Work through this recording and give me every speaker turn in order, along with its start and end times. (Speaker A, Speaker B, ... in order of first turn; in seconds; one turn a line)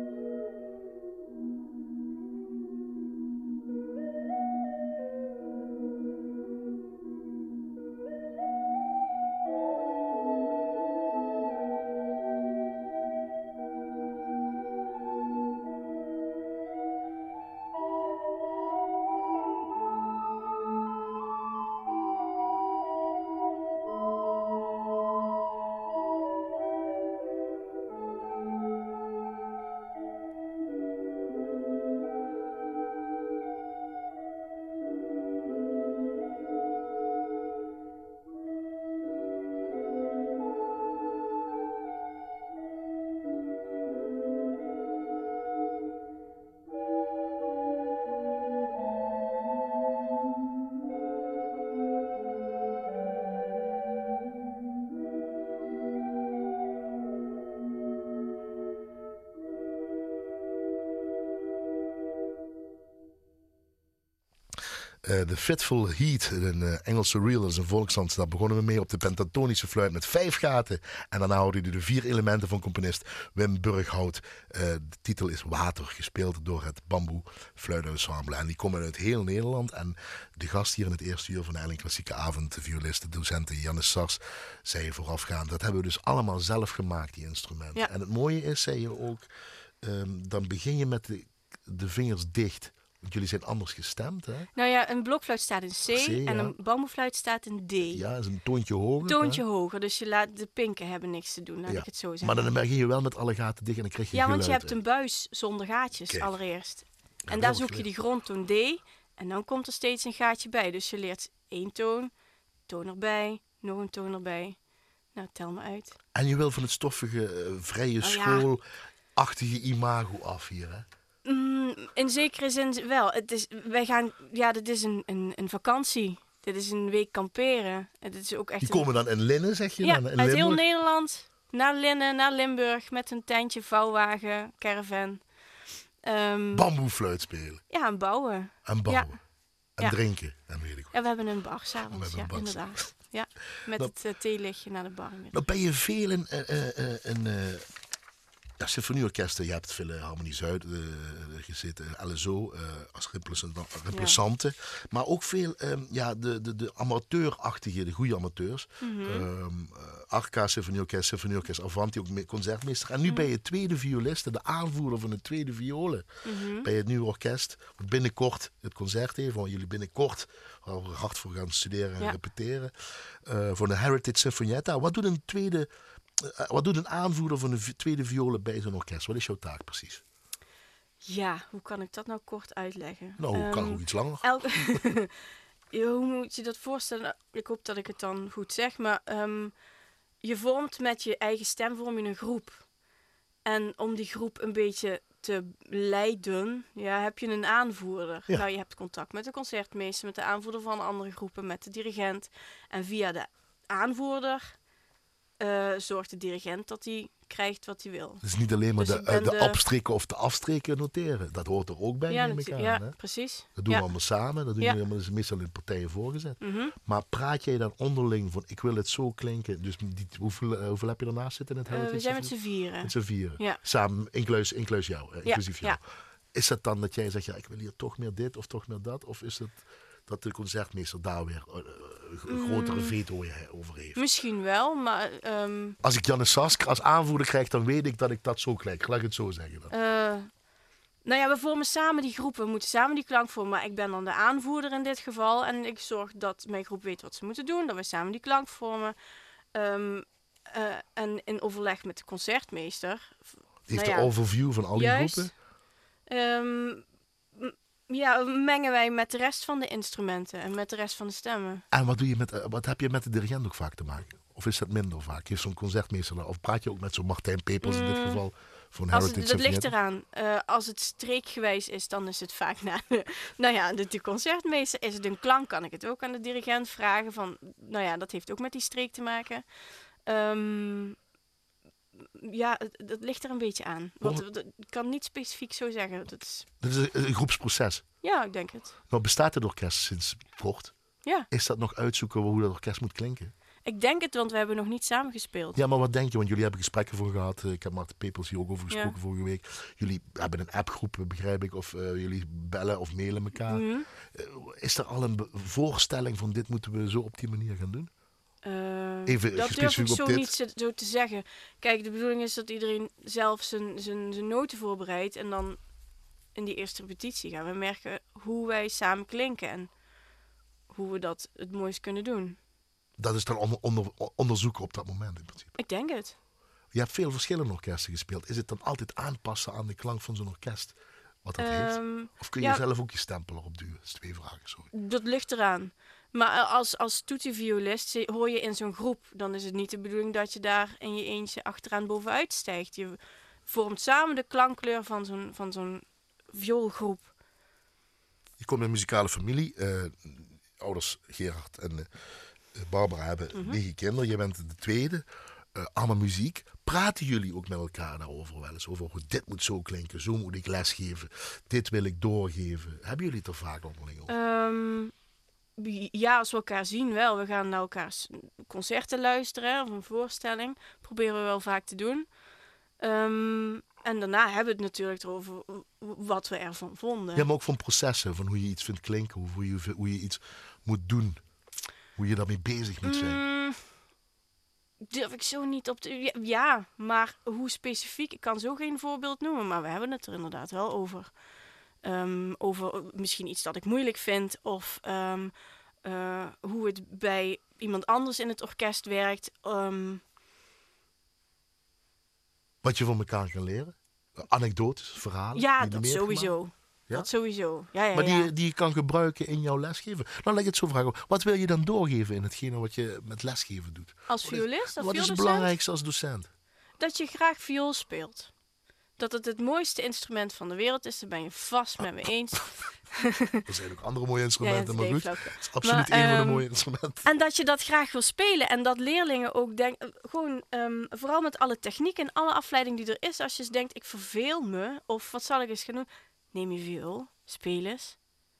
Speaker A: 65.0-89.3
Speaker A: 89.8-94.5
Speaker B: 94.5-98.0
Speaker A: 95.9-96.5
Speaker A: 97.9-99.4
Speaker B: 99.0-102.4
Speaker A: 101.7-104.8
Speaker B: 104.1-112.1
Speaker A: 107.3-107.9
Speaker B: 112.7-114.6
Speaker B: 115.1-116.0
Speaker A: 116.2-118.6
Speaker B: 118.0-118.5
Speaker A: 119.2-120.9
Speaker B: 121.2-128.9
Speaker A: 128.6-130.6
Speaker B: 129.8-135.2
Speaker B: 136.0-136.7
Speaker A: 136.5-137.6
Speaker B: 137.7-139.1
Speaker A: 138.7-139.2
Speaker A: 139.8-141.0
Speaker B: 140.9-145.4
Speaker A: 141.9-142.8
Speaker A: 145.3-147.7
Speaker A: 148.6-166.1
Speaker B: 153.9-154.2
Speaker B: 158.8-159.3
Speaker B: 166.2-166.7
Speaker A: 166.6-172.7
Speaker A: 173.2-180.0
Speaker B: 181.0-185.1
Speaker A: 183.2-184.8
Speaker B: 185.7-189.5
Speaker B: 190.2-192.7
Speaker B: 193.4-204.6
Speaker B: 205.4-208.2
Speaker A: 208.2-213.0
Speaker B: 208.8-209.6
Speaker B: 212.1-213.9
Speaker A: 213.6-225.8
Speaker B: 216.4-216.8
Speaker B: 221.7-223.6
Speaker B: 225.3-225.8
Speaker A: 226.3-234.0
Speaker B: 232.3-233.0
Speaker B: 234.0-235.8
Speaker A: 235.8-239.7
Speaker B: 239.7-240.3
Speaker B: 241.0-248.9
Speaker B: 249.5-254.1
Speaker A: 253.7-255.3
Speaker B: 254.7-255.3
Speaker B: 256.1-261.6
Speaker A: 261.7-269.7
Speaker B: 267.6-268.2
Speaker B: 268.9-279.4
Speaker B: 280.1-281.0
Speaker B: 282.0-286.5
Speaker A: 286.6-287.8
Speaker B: 288.0-288.8
Speaker A: 288.9-290.7
Speaker A: 291.3-293.3
Speaker B: 293.7-295.6
Speaker A: 295.6-307.9
Speaker B: 303.5-303.9
Speaker B: 308.4-315.6
Speaker A: 309.1-310.3
Speaker B: 316.4-319.7
Speaker B: 320.7-322.4
Speaker A: 323.0-325.6
Speaker B: 325.6-326.2
Speaker A: 326.7-334.7
Speaker B: 331.4-332.6
Speaker B: 334.7-347.1
Speaker A: 348.4-351.9
Speaker A: 352.5-364.1
Speaker B: 353.3-353.6
Speaker B: 364.1-364.9
Speaker B: 365.6-372.1
Speaker B: 372.8-377.3
Speaker A: 377.1-381.2
Speaker A: 382.0-383.2
Speaker B: 382.8-383.6
Speaker B: 384.8-391.1
Speaker B: 391.8-400.0
Speaker A: 402.6-406.4
Speaker B: 405.4-408.3
Speaker A: 407.9-416.3
Speaker B: 414.1-415.5
Speaker B: 416.8-418.3
Speaker B: 419.0-423.4
Speaker A: 423.5-427.1
Speaker B: 424.4-426.4
Speaker B: 427.0-438.0